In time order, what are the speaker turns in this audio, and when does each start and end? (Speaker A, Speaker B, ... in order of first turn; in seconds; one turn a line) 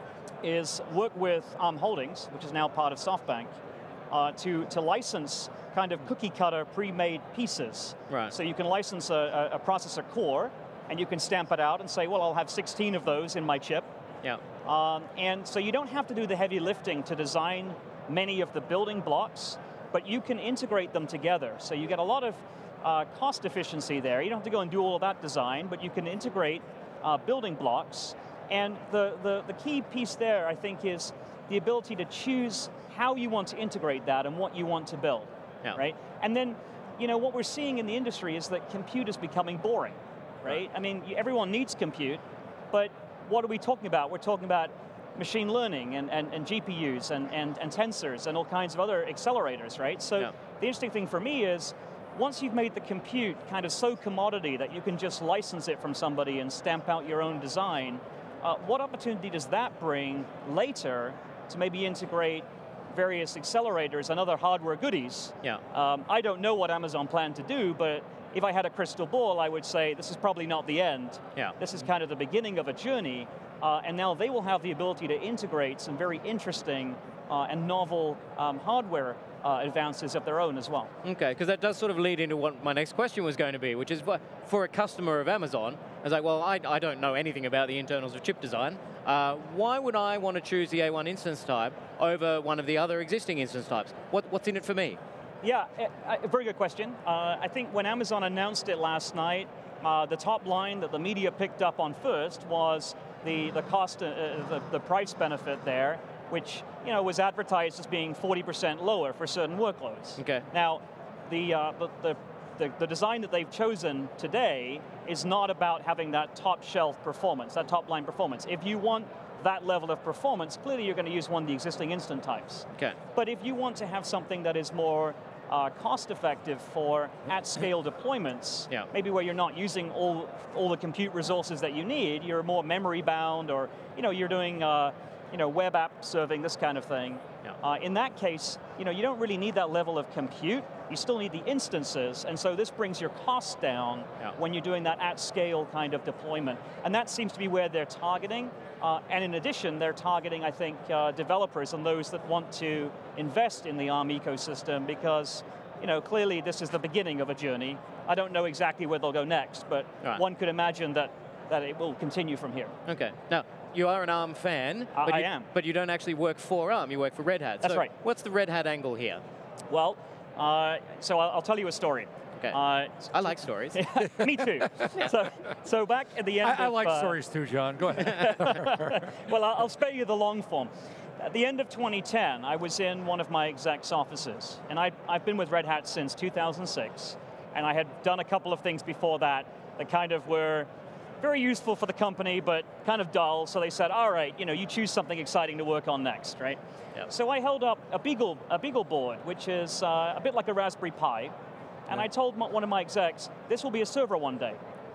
Speaker A: 0.4-3.5
Speaker A: 4.1-13.9
Speaker A: 14.6-80.9
Speaker B: 81.0-95.0
Speaker A: 95.4-162.8
Speaker B: 110.2-110.4
Speaker B: 162.9-169.2
Speaker A: 164.9-165.5
Speaker A: 167.6-167.9
Speaker A: 169.7-177.2
Speaker B: 173.1-173.8
Speaker C: 176.4-179.1
Speaker A: 178.0-190.7
Speaker A: 191.2-201.3
Speaker A: 201.9-204.6